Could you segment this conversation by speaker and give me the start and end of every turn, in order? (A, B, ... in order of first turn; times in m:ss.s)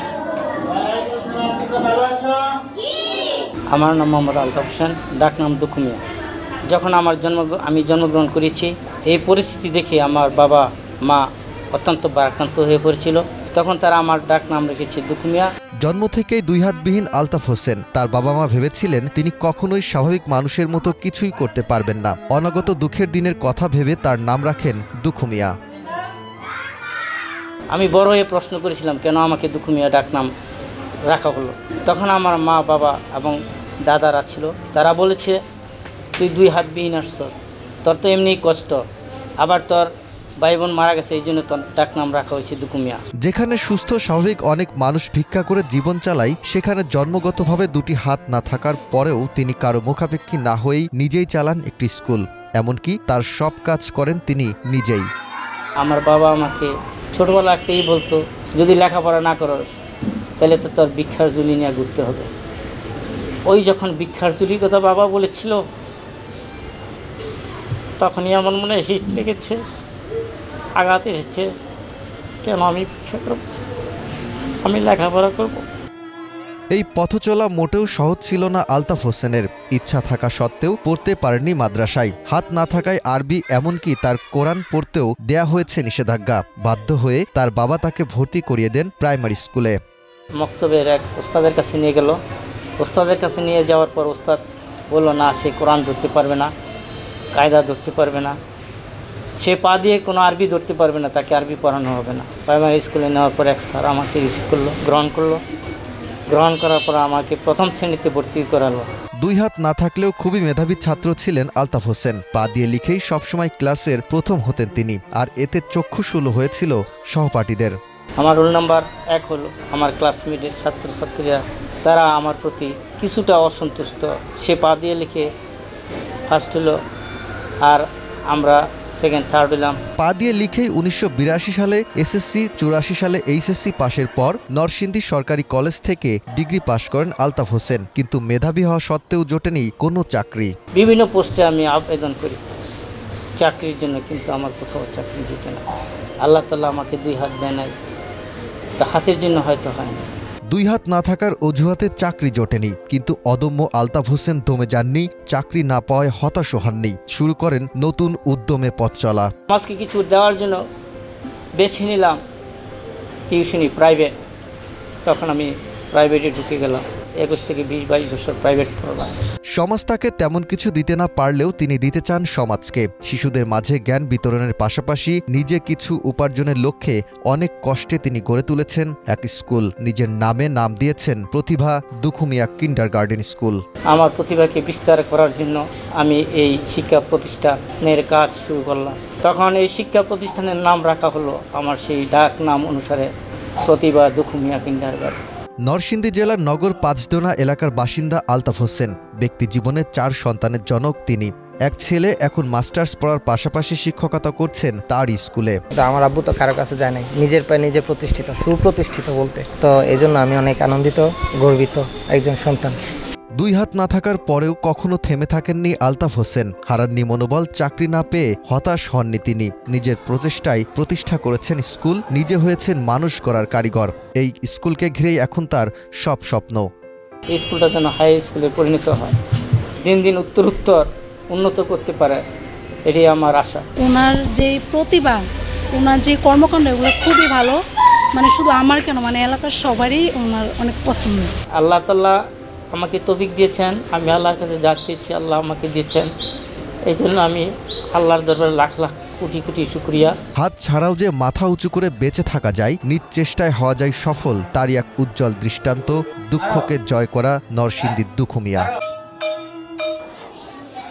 0:00.5-0:02.6 A
0:03.7-0:06.0 A
0:06.6-0:15.5 A
0:15.8-0:25.5 B
0:27.7-0:30.3 A
0:31.0-0:35.4 A
0:36.2-0:38.8 A
0:39.4-0:43.0 A
0:43.2-0:55.1 B
0:55.8-0:59.7 A
1:00.4-1:02.3 A
1:03.4-1:05.6 A
1:08.0-1:09.6 A
1:10.8-1:11.5 A
1:12.4-1:13.4 A
1:14.6-1:15.6 A
1:16.7-1:29.8 B
1:30.3-1:32.2 A
1:32.8-1:36.5 A
1:37.3-1:38.4 A
1:39.4-1:45.4 A
1:46.3-1:48.9 A
1:49.2-1:57.7 B
1:58.2-2:05.3 A
2:06.3-2:06.8 A
2:07.6-2:09.8 A
2:10.0-2:20.5 B
2:20.7-2:22.4 A
2:23.4-2:25.6 A
2:26.2-2:27.7 A
2:28.8-2:30.0 A
2:30.5-2:39.3 B
2:39.5-2:40.6 A
2:41.6-2:42.2 A
2:43.3-2:44.1 A
2:45.0-2:49.2 A
2:49.6-3:03.6 B
3:03.9-3:13.1 A
3:13.6-3:15.2 A
3:15.6-3:25.6 B
3:25.7-3:32.8 C
3:33.4-3:46.7 B
3:47.3-3:49.2 A
3:49.8-3:52.2 A
3:52.8-3:53.6 A
3:53.8-3:55.2 D
3:55.8-3:57.6 D
3:58.2-4:01.3 D
4:01.6-4:02.2 A
4:02.7-4:06.1 A
4:06.8-4:10.1 A
4:10.4-4:18.7 B